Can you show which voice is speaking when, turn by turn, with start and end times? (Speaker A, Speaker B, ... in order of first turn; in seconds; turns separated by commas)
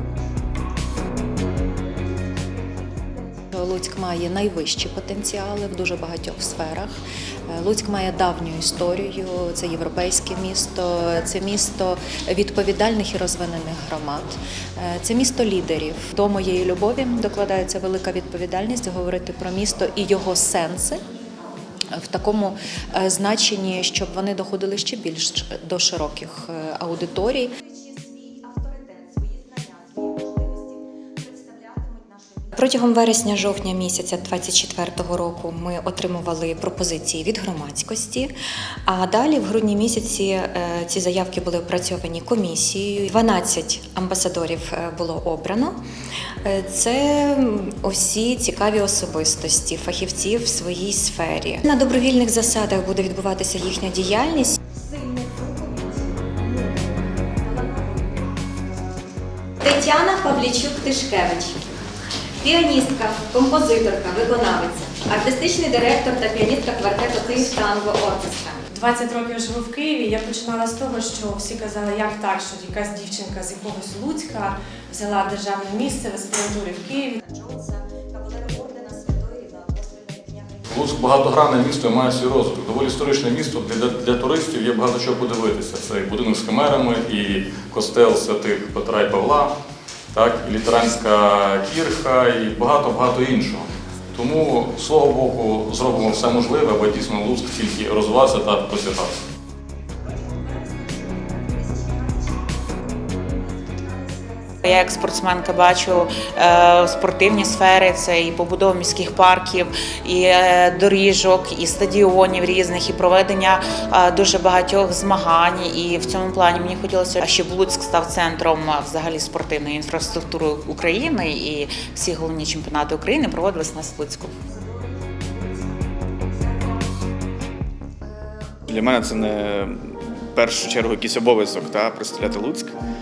Speaker A: 3.5-21.0, Speaker A: 21.9-27.5, Speaker B: 32.5-38.3, Speaker B: 38.9-45.8, Speaker B: 46.4-54.6, Speaker B: 59.6-61.6, Speaker B: 62.4-68.7, Speaker C: 68.7-77.2, Speaker D: 80.7-89.5, Speaker D: 90.1-99.2, Speaker E: 104.7-124.3, Speaker F: 128.7-132.8